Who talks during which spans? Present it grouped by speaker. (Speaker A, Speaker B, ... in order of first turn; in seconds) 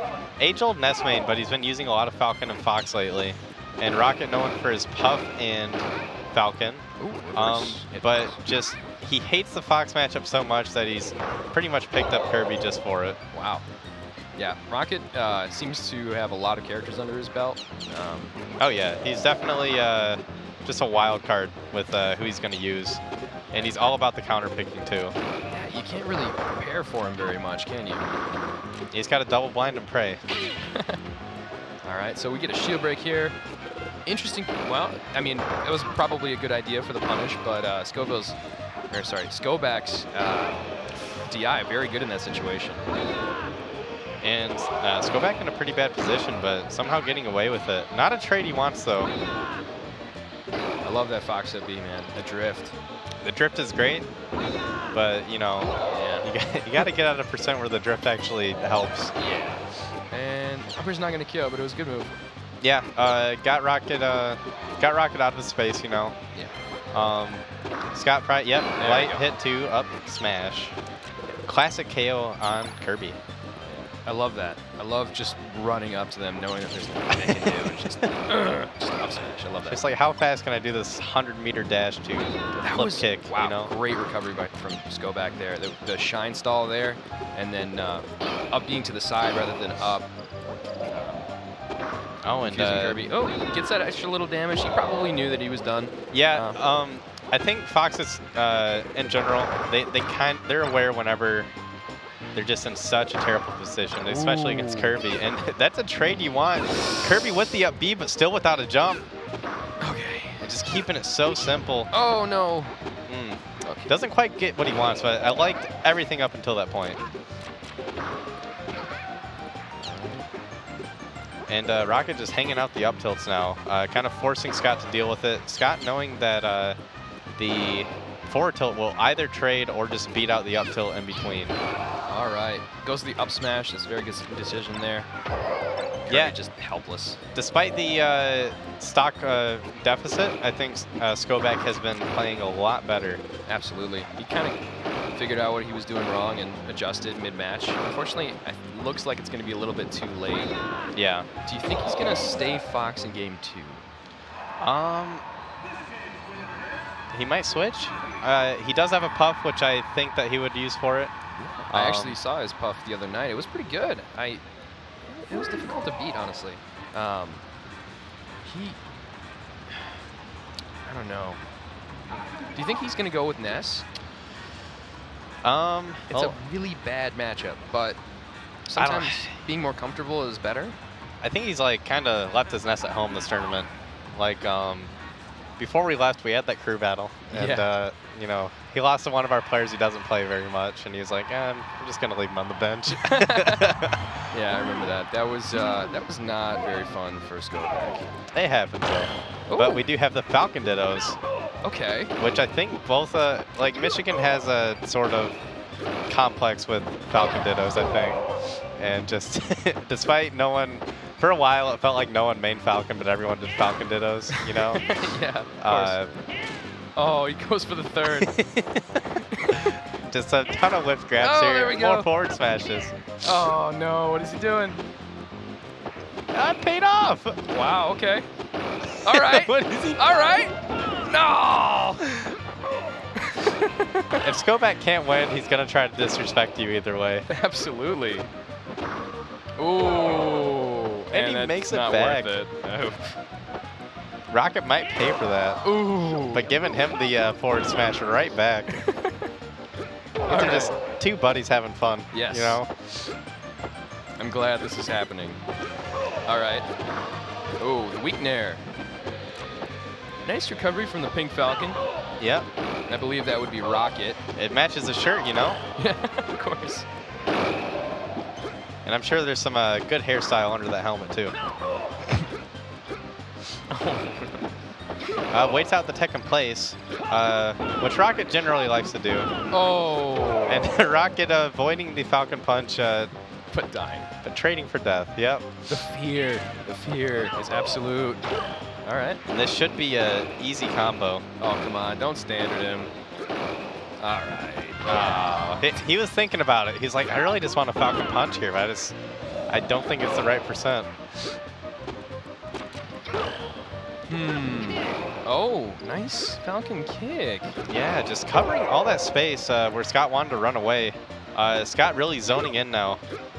Speaker A: 0.4-13.2, 18.6-23.0, 23.5-25.1, 28.9-30.2, 44.2-49.1, 53.2-54.1, 54.9-59.1, 62.6-66.2, 66.9-70.7, 71.5-73.2, 77.1-78.0, 79.7-83.7, 92.2-93.0, 96.1-101.5, 102.3-109.1, 110.4-111.9, 113.1-117.0, 121.5-126.8, 127.3-131.6, 136.1-136.3, 137.3-143.2, 150.9-151.3, 154.6-155.2, 157.1-161.1, 161.7-162.2, 175.4-176.3, 178.8-179.4, 181.2-184.9, 185.6-194.1, 198.3-201.2, 202.2-205.4, 206.1-208.2, 208.8-214.9, 215.6-216.1, 218.2-218.8, 219.6-223.0, 226.3-227.4, 229.1-230.0, 234.2-237.3, 241.1-242.4, 244.3-245.6, 246.3-248.8, 250.3-252.7, 262.2-262.4, 264.4-265.6, 268.8-271.3, 275.3-279.3, 280.5-283.1, 284.2-285.5, 289.3-291.2, 294.9-299.0, 299.5-300.9, 307.7-313.0
Speaker B: 7.0-8.4, 13.3-13.6, 14.3-18.3, 23.5-24.0, 25.5-28.1, 30.7-31.0, 31.8-33.4, 34.0-38.4, 38.9-42.8, 50.8-52.8, 55.9-56.3, 59.1-62.2, 68.8-69.3, 73.6-79.8, 82.6-90.1, 90.9-91.2, 92.5-96.6, 104.0-105.0, 109.8-110.5, 111.9-112.7, 113.6-113.9, 119.8-120.3, 132.1-135.1, 136.0-137.2, 143.4-144.6, 145.1-150.6, 151.4-153.9, 161.6-164.4, 165.1-167.4, 168.4-168.8, 170.8-171.4, 172.5-173.8, 176.1-178.0, 178.7-180.8, 187.3-187.7, 192.9-193.8, 194.3-198.1, 199.5-199.8, 201.6-202.1, 214.5-216.0, 216.9-218.3, 219.2-219.7, 221.2-222.1, 223.2-224.8, 227.5-228.3, 229.0-232.4, 233.1-234.2, 237.3-238.3, 239.6-243.2, 245.6-246.5, 248.7-249.3, 250.2-250.7, 252.1-252.6, 254.2-255.4, 256.3-256.7, 257.6-258.6, 260.2-261.8, 262.9-264.2, 265.8-266.9, 273.7-274.4, 279.5-280.7, 283.5-284.1, 285.7-288.2, 288.8-289.2, 291.4-292.9, 294.0-295.7, 304.1-307.6